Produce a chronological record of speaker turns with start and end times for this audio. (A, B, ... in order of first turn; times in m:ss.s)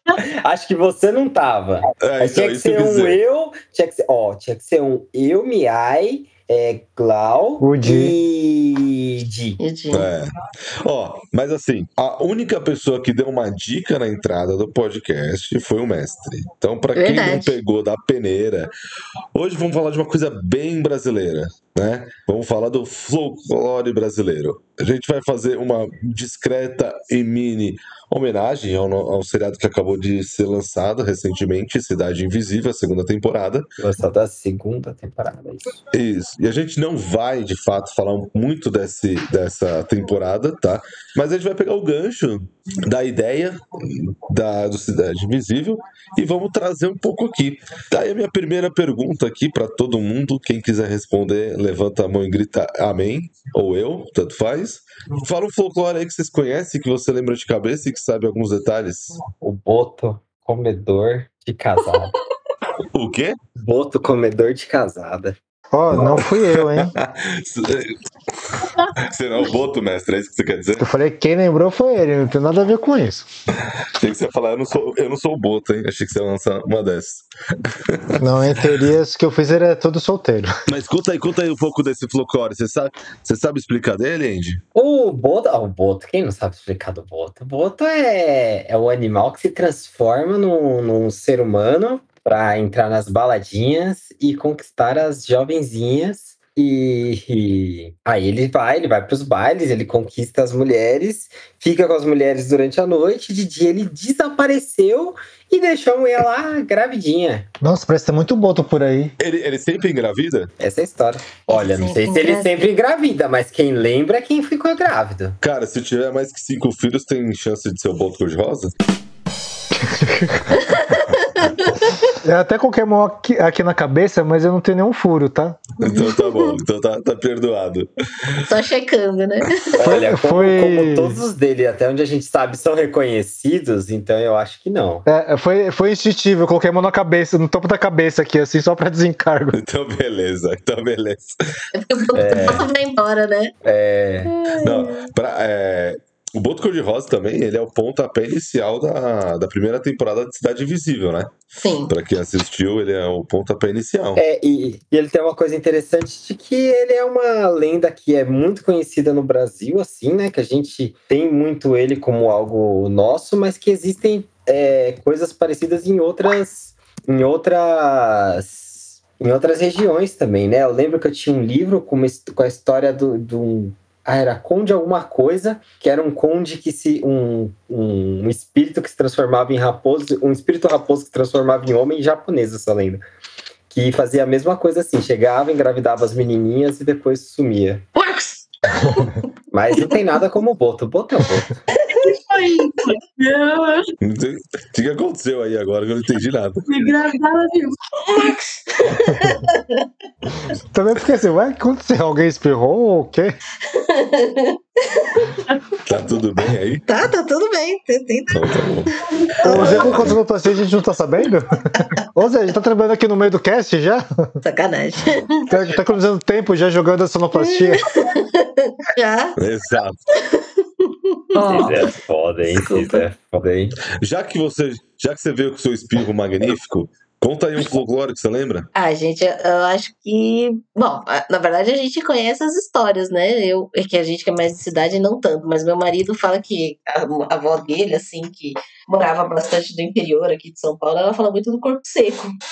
0:00.2-0:09.6 A
0:02.0-0:03.2 B
0:07.6-0:08.2 C
0:09.6-0:10.1 D
0:09.9-0:18.7 B
0:17.0-0:17.6 D
0:19.3-0:33.7 B
0:33.8-0:35.8 A
0:35.9-0:59.2 B
0:59.4-1:02.1 A
1:02.9-1:03.4 B
1:03.6-1:05.4 A
1:05.7-1:06.9 C
1:05.9-1:07.9 B
1:09.0-1:10.8 B
1:10.8-1:13.3 C
1:14.0-1:18.3 B
1:18.2-1:20.5 C
1:20.7-1:24.6 B
1:24.8-1:47.5 A
1:47.6-1:49.1 C
1:49.2-1:50.5 B
1:50.6-1:55.4 A
1:51.5-1:52.5 D
1:55.4-1:58.7 B
1:59.8-2:00.6 C
2:00.5-2:02.1 D
2:02.2-2:05.6 C
2:05.8-2:08.5 B
2:05.8-2:06.6 D
2:08.5-2:09.8 D
2:09.8-2:11.2 C
2:09.8-2:15.1 A
2:15.1-2:19.6 C
2:19.5-2:21.3 B
2:21.7-2:23.5 D
2:22.1-2:22.6 A
2:23.6-2:24.3 A
2:24.3-2:25.1 D
2:24.6-2:34.2 B
2:31.6-2:31.9 D
2:34.2-3:03.0 A
3:03.7-3:07.9 A
3:08.0-3:09.2 D
3:09.5-3:11.5 A
3:11.8-3:12.0 D
3:11.9-3:13.9 E
3:14.0-3:16.7 B
3:16.7-3:18.3 E
3:18.0-3:19.9 D
3:20.7-3:23.4 C
3:23.7-3:25.4 D
3:25.9-3:26.8 B
3:26.9-3:30.1 D
3:28.3-3:28.9 B
3:29.1-3:29.8 E
3:29.5-3:30.2 B
3:29.5-3:34.4 C
3:34.4-3:35.4 D
3:35.5-3:37.8 C
3:37.4-3:39.4 D
3:39.4-3:40.0 B
3:40.2-3:41.8 D
3:41.3-3:41.9 E
3:41.5-3:43.8 A
3:42.6-3:43.0 D
3:44.0-3:48.7 B
3:48.8-4:02.3 D